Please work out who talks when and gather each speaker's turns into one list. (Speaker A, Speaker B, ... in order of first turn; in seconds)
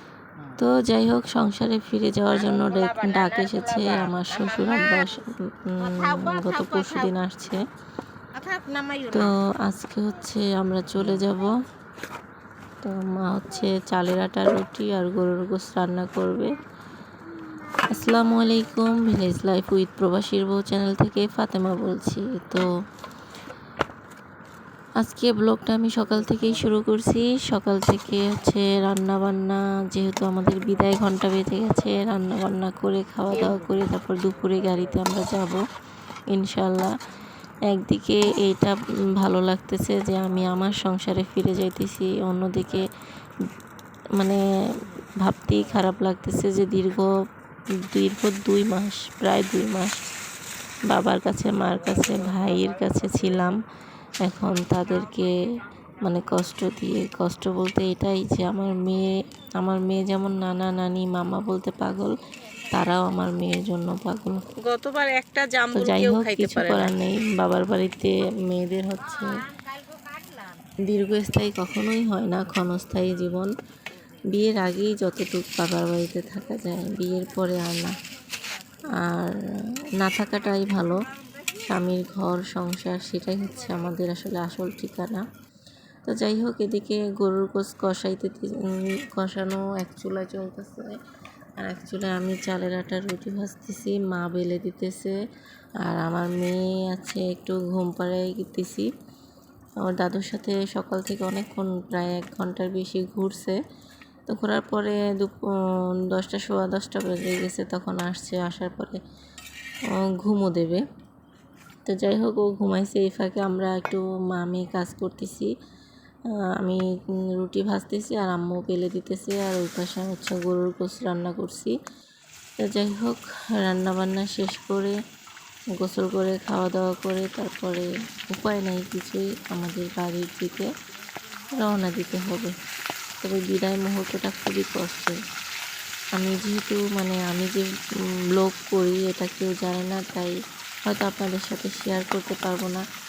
Speaker A: 0.6-7.7, 9.1-11.6, 12.8-16.6, 17.8-22.7, 25.0-35.6, 36.3-36.9, 37.7-42.9, 45.2-47.1, 47.9-50.0, 50.9-53.6, 54.2-55.4, 56.0-64.4, 65.7-69.4, 70.8-73.5, 74.3-78.0, 79.0-79.4, 80.0-85.2, 86.0-91.0, 91.6-95.2, 95.8-98.9, 99.8-103.6, 104.3-105.5, 106.1-109.0, 109.9-110.8, 111.8-115.5, 117.4-121.7, 122.6-125.0, 125.8-130.7, 131.5-132.5, 133.2-135.2, 136.1-137.7, 138.4-140.3, 140.9-142.8
Speaker B: 2.3-5.2, 5.8-7.1, 8.3-9.3, 11.0-11.2, 33.3-33.8, 51.7-53.5, 64.6-66.9, 69.3-70.6